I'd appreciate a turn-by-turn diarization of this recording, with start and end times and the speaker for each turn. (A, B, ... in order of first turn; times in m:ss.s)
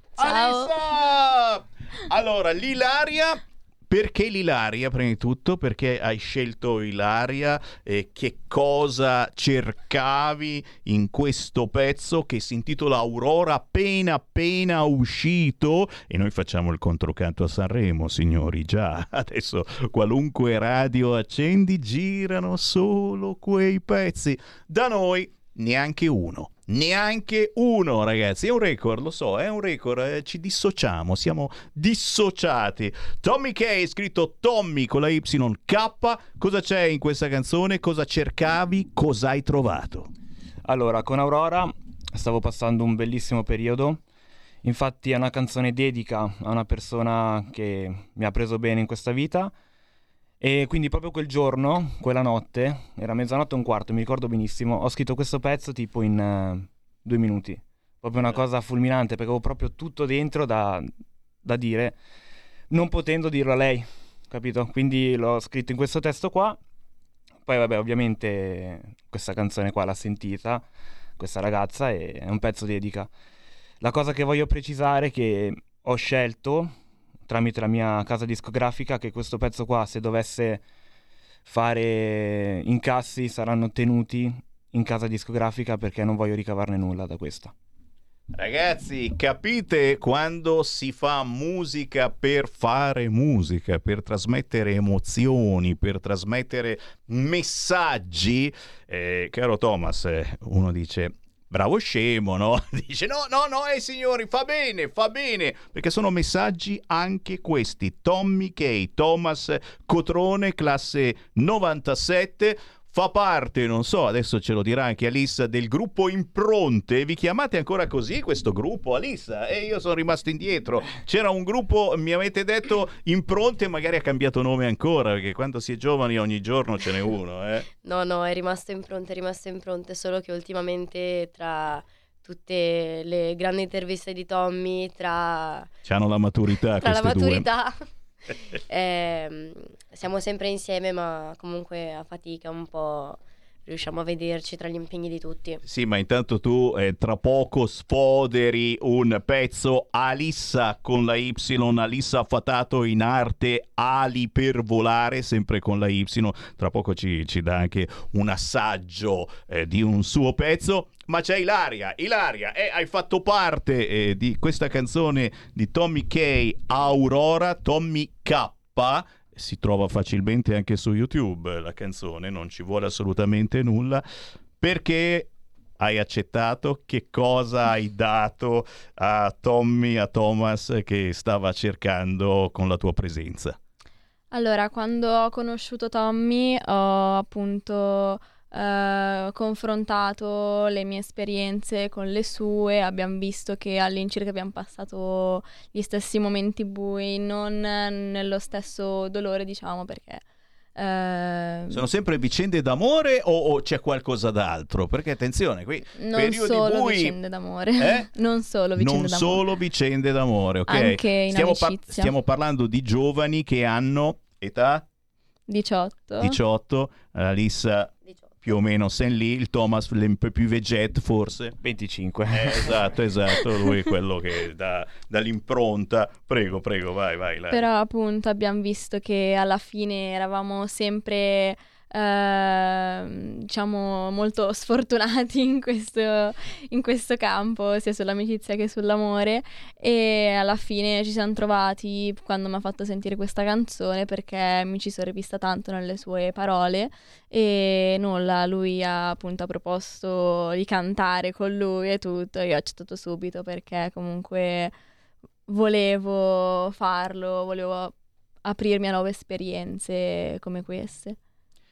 0:00.2-0:40.1 A
0:00.2-0:00.7 B
0:40.6-0:44.0 C
0:44.6-0:49.5 C
0:50.4-1:00.9 C
1:01.4-1:02.0 C
1:02.7-1:06.6 C
1:07.4-1:10.6 C
1:11.2-1:13.1 C
1:13.8-1:16.7 C
1:17.3-1:20.6 C
1:21.4-1:27.5 C
1:28.3-2:07.6 A
2:07.8-2:15.7 B
2:15.8-2:17.4 A
2:16.8-2:17.8 B
2:18.7-2:25.6 B
2:25.6-2:54.0 A
2:54.6-3:03.6 A
3:04.3-3:20.2 D
3:20.8-3:21.8 D
3:21.7-3:27.1 A
3:26.0-3:29.4 D
3:27.8-3:28.1 A
3:28.8-3:34.8 A
3:30.7-3:32.1 D
3:35.5-3:36.4 D
3:36.2-3:37.9 A
3:38.0-3:38.3 B
3:38.4-3:41.5 A
3:41.6-3:42.8 C
3:42.3-3:47.6 A
3:47.5-4:14.7 D
4:15.5-4:17.9 D
4:18.4-4:21.2 D